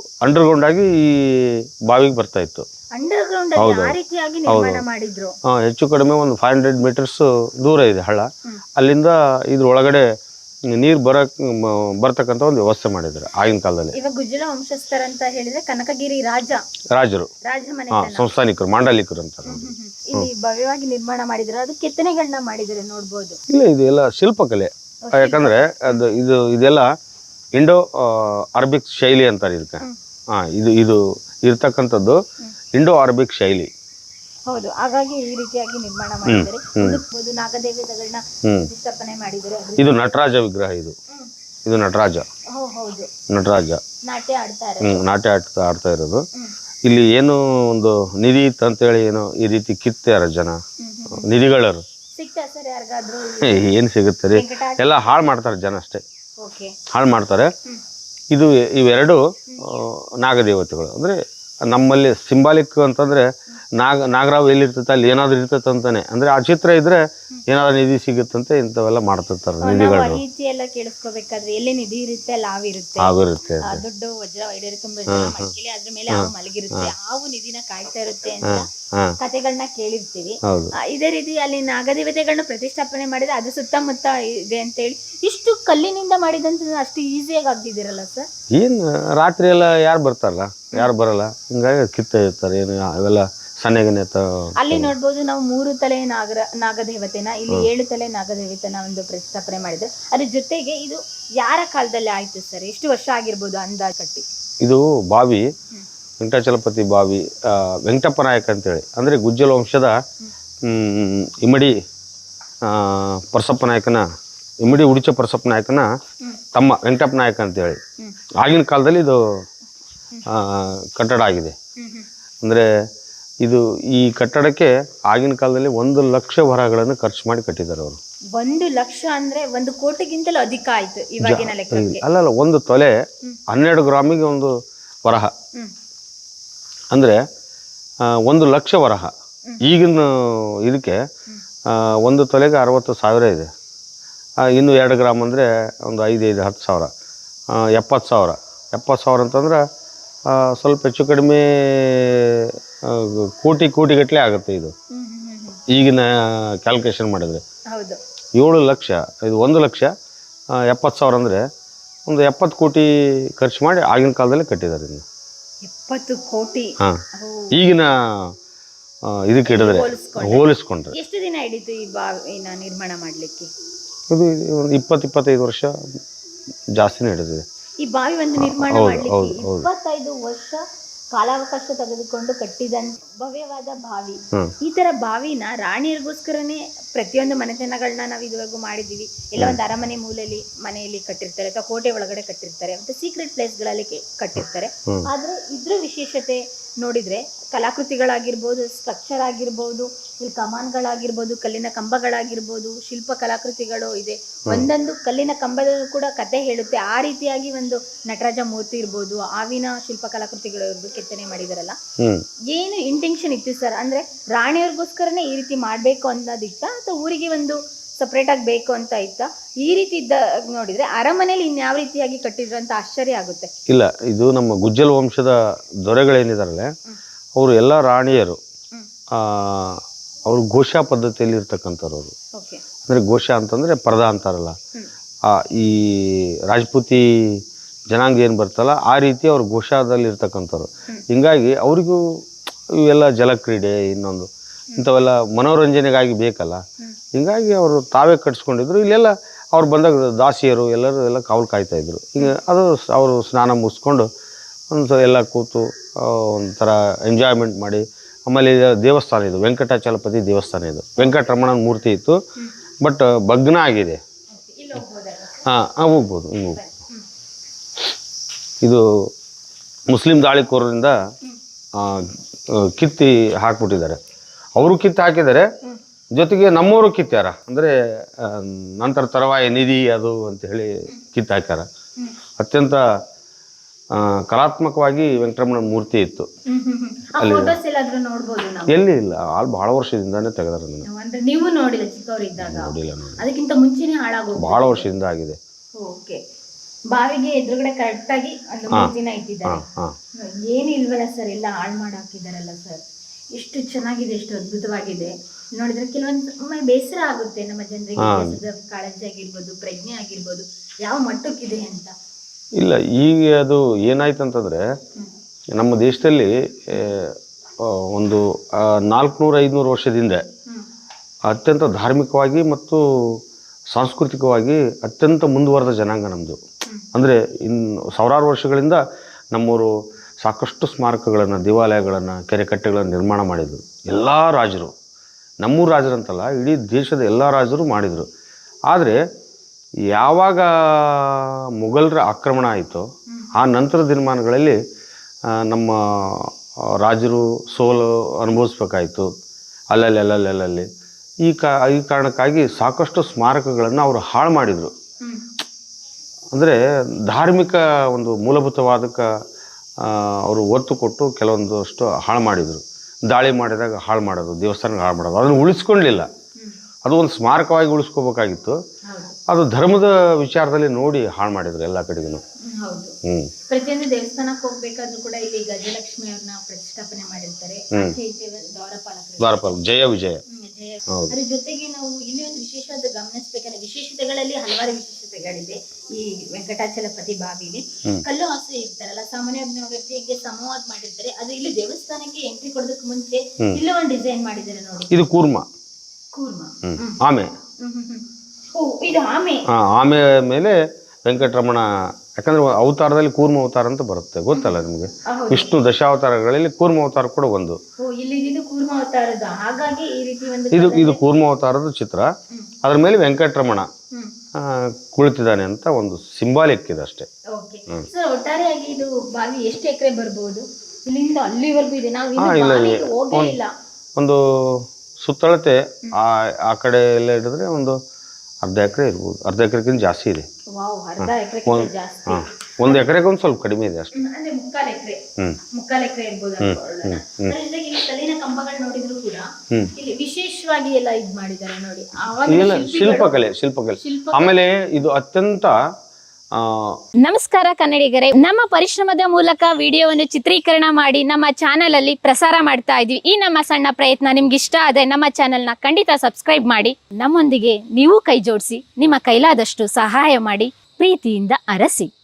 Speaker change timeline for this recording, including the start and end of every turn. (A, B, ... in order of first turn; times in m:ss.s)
0:00.2-0:02.7 A
0:03.0-0:05.4 B
0:03.6-0:04.0 A
0:04.5-0:04.8 A
0:05.5-0:10.0 A
0:10.8-0:14.0 A
0:13.9-0:16.6 B
0:17.0-0:17.3 A
0:17.4-0:18.3 B
0:17.9-0:20.3 A
0:19.4-0:23.4 B
0:23.5-0:26.9 A
0:25.0-0:26.1 B
0:27.6-0:32.2 A
0:32.7-0:33.7 A
0:34.5-0:40.1 B
0:36.2-0:37.0 A
0:39.8-0:41.0 A
0:41.7-0:42.2 A
0:42.5-0:43.1 B
0:43.3-0:43.8 A
0:44.1-0:45.1 B
0:44.8-0:46.2 A
0:46.9-0:50.6 A
0:50.8-0:51.3 B
0:51.1-0:51.8 A
0:52.2-0:53.8 B
0:53.4-0:56.0 A
0:54.3-0:54.8 B
0:56.4-0:56.8 B
0:56.9-0:57.5 A
0:58.3-1:01.2 A
1:01.7-1:03.3 A
1:03.8-1:10.2 A
1:09.6-1:18.7 B
1:13.0-1:13.8 A
1:15.1-1:15.5 A
1:16.1-1:16.9 A
1:18.5-1:19.2 A
1:19.2-1:28.3 B
1:20.4-1:20.7 A
1:28.5-1:34.9 A
1:34.6-1:44.2 B
1:44.6-1:45.4 A
1:46.2-1:50.0 A
1:50.7-1:51.7 A
1:52.7-1:54.0 A
1:54.6-1:55.9 A
1:56.6-1:57.8 A
1:58.4-1:59.2 A
2:00.3-2:01.6 A
2:01.8-2:02.1 B
2:03.4-2:08.0 A
2:08.3-2:12.0 B
2:11.2-2:12.9 A
2:13.5-2:14.5 A
2:15.1-2:15.3 A
2:18.1-2:19.1 A
2:19.6-2:21.0 A
2:21.7-2:23.5 A
2:24.4-2:26.9 A
2:27.6-2:29.6 A
2:30.3-2:34.7 A
2:34.9-2:35.6 B
2:35.7-2:37.4 A
2:37.7-2:38.0 B
2:38.4-2:39.9 A
2:40.6-2:41.4 A
2:42.1-2:45.0 A
2:45.6-2:47.5 B
2:47.5-2:48.3 A
2:49.1-2:51.0 A
2:49.5-2:53.5 B
2:54.1-2:55.7 A
2:56.8-2:57.4 A
2:57.8-3:00.6 B
2:58.4-2:59.7 A
3:01.1-3:31.8 B
3:32.5-3:43.5 B
3:43.7-3:46.7 A
3:47.4-3:48.4 A
3:49.1-3:52.1 A
3:52.4-3:52.6 B
3:52.9-3:54.6 A
3:55.3-3:57.1 A
3:57.9-4:02.0 A
4:02.7-4:06.6 A
4:07.1-4:14.1 A
4:14.7-4:22.2 A
4:21.0-4:21.3 B
4:22.8-4:24.0 A
4:24.3-4:25.5 B
4:25.4-4:26.6 A
4:26.6-4:27.1 B
4:29.9-4:31.0 A
4:31.8-4:34.0 A
4:34.6-4:35.5 A
4:36.2-4:41.7 A
4:42.4-4:42.8 A
4:44.0-4:46.3 A
4:46.5-4:48.8 B
4:47.2-4:47.6 A
4:48.7-4:50.9 A
4:50.9-4:54.9 B
4:52.4-4:53.2 A
4:54.4-4:55.4 A
4:55.8-4:56.2 B
4:56.9-4:59.6 B
4:59.5-4:59.9 A
5:00.2-5:02.8 B
5:03.4-5:12.0 B
5:08.0-5:08.4 A
5:12.6-5:14.6 A
5:15.6-5:20.2 A
5:21.3-5:23.2 A
5:23.7-5:26.4 A
5:26.9-5:28.8 A
5:29.3-5:29.7 A
5:30.2-5:34.7 A
5:35.4-5:38.1 A
5:38.7-5:39.0 A
5:39.9-5:44.6 A
5:45.4-5:46.3 A
5:46.8-5:49.1 A
5:49.7-5:50.7 A
5:51.3-5:54.7 A
5:56.3-5:59.1 A
5:59.8-6:06.1 A
6:06.8-6:08.6 A
6:08.9-6:09.2 B
6:09.3-6:12.2 A
6:12.5-6:13.0 B
6:13.0-6:13.3 A
6:13.5-6:19.6 B
6:19.2-6:20.2 A
6:20.3-6:34.9 B
6:34.9-6:35.5 A
6:36.1-6:37.0 B
6:36.6-6:37.3 A
6:37.6-6:39.4 B
6:39.5-6:47.6 A
6:44.3-6:45.5 B
6:47.8-6:51.0 B
6:50.5-6:52.1 A
6:52.6-6:53.7 A
6:54.4-6:57.1 A
6:57.3-7:03.5 B
7:02.2-7:03.4 A
7:04.0-7:07.8 A
7:08.4-7:10.3 A
7:10.5-7:12.9 B
7:11.0-7:13.9 A
7:14.0-7:15.0 B
7:15.5-7:23.1 B
7:16.4-7:17.3 A
7:22.3-7:25.6 A
7:23.8-7:24.4 B
7:26.4-7:26.8 A
7:27.0-7:41.9 B